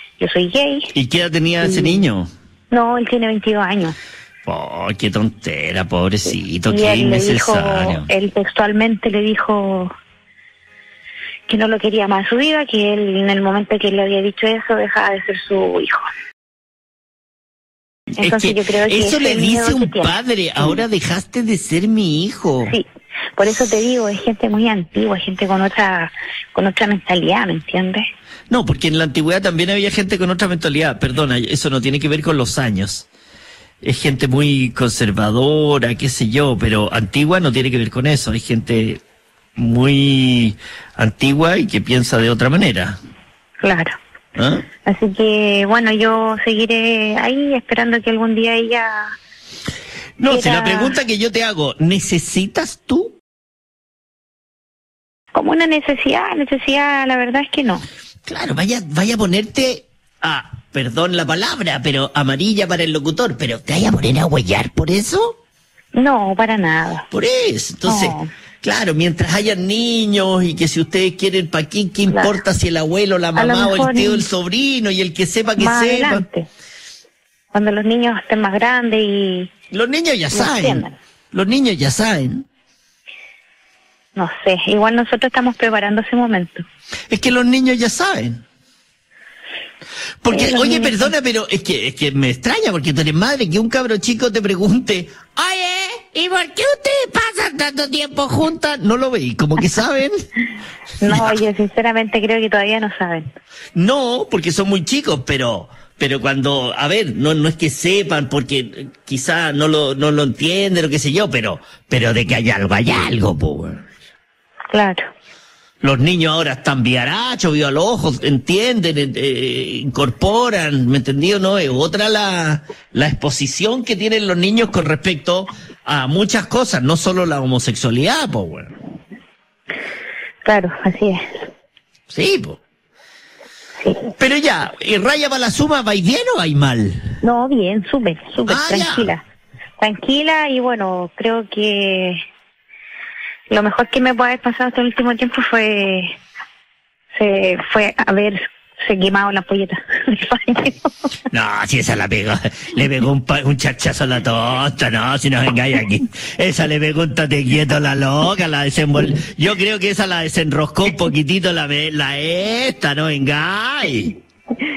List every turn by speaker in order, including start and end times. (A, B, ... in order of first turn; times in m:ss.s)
0:00.2-0:00.9 A
0:00.9-0:02.3 B
0:01.6-0:01.9 A
0:02.7-0:04.0 A
0:04.4-0:08.1 B
0:06.7-0:09.9 A
0:11.5-0:16.0 A
0:18.2-0:22.7 B
0:18.2-0:20.7 A
0:23.4-0:28.1 A
0:28.5-0:33.1 B
0:33.8-0:39.0 B
0:39.6-0:43.0 B
0:43.6-0:44.0 A
0:44.4-0:44.6 B
0:44.8-0:49.1 A
0:50.2-0:53.1 B
0:50.3-0:51.0 A
0:55.3-0:57.9 A
0:58.2-1:05.4 B
1:06.0-1:07.1 A
1:07.1-1:16.2 B
1:07.9-1:08.3 A
1:12.1-1:12.4 A
1:13.4-1:14.2 A
1:15.6-1:16.5 A
1:17.5-1:19.5 A
1:19.7-1:22.4 B
1:20.3-1:21.0 A
1:24.2-1:26.6 A
1:27.1-1:28.4 B
1:30.2-1:40.2 B
1:30.3-1:31.1 A
1:41.0-1:43.3 A
1:41.1-1:41.4 B
1:43.8-1:53.9 B
1:54.7-1:55.1 A
1:55.8-2:08.8 B
2:10.4-2:11.4 A
2:12.1-2:12.6 B
2:14.2-2:17.1 B
2:17.2-2:19.2 A
2:18.4-2:19.1 B
2:19.8-2:22.2 A
2:23.5-2:26.1 A
2:27.1-2:30.9 A
2:31.3-2:44.2 B